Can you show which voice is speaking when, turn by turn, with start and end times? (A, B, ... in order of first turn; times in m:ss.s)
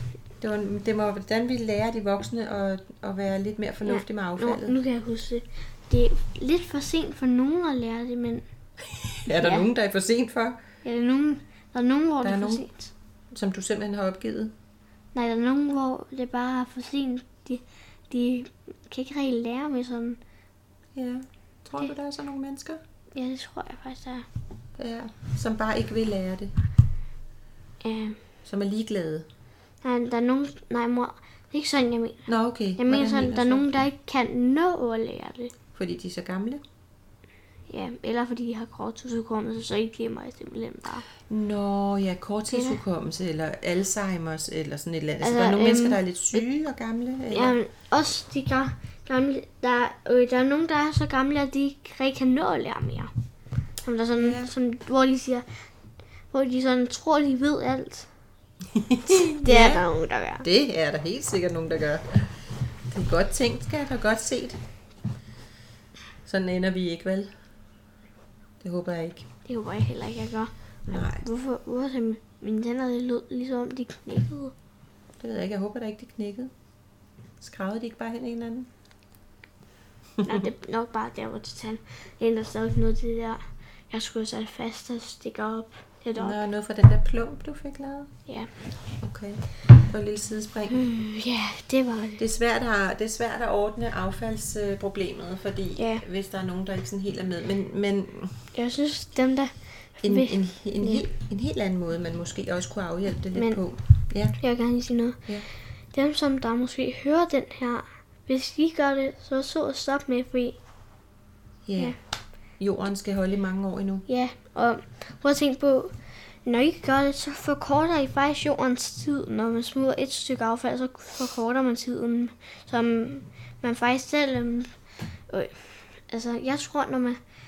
0:00.4-0:04.8 A
0:03.9-0:08.4 B
0:09.0-0:10.6 A
0:09.3-0:09.7 B
0:10.8-0:12.9 B
0:12.2-0:12.7 A
0:13.3-0:14.5 A
0:15.1-0:20.2 B
0:21.0-0:22.8 A
0:23.1-0:24.3 B
0:24.8-0:26.5 A
0:27.8-0:28.2 B
0:28.4-0:29.3 A
0:29.8-0:35.5 B
0:32.3-0:33.7 A
0:35.7-0:36.6 A
0:37.7-0:41.1 B
0:41.3-0:47.6 A
0:42.5-0:42.8 B
0:45.2-0:46.4 B
0:47.3-0:53.1 B
0:53.8-0:55.5 B
0:54.2-0:54.5 A
0:56.3-0:58.1 B
0:58.7-0:59.8 A
0:59.1-1:00.4 B
1:00.4-1:02.4 A
1:02.9-1:04.6 A
1:06.2-1:07.3 A
1:08.6-1:09.3 A
1:09.5-1:14.5 B
1:10.9-1:11.3 A
1:15.2-1:16.5 A
1:17.4-1:18.7 A
1:20.2-1:20.4 A
1:20.2-1:26.4 B
1:26.2-1:28.1 A
1:29.0-1:30.8 A
1:30.7-1:32.2 B
1:32.2-1:38.5 A
1:35.8-1:36.0 B
1:38.6-1:41.0 B
1:40.0-1:44.4 A
1:43.4-1:43.6 B
1:44.4-1:45.3 B
1:45.9-1:50.6 B
1:51.7-1:52.0 A
1:52.6-1:54.0 A
1:54.1-1:55.9 B
1:56.4-2:04.7 B
2:05.3-2:07.2 B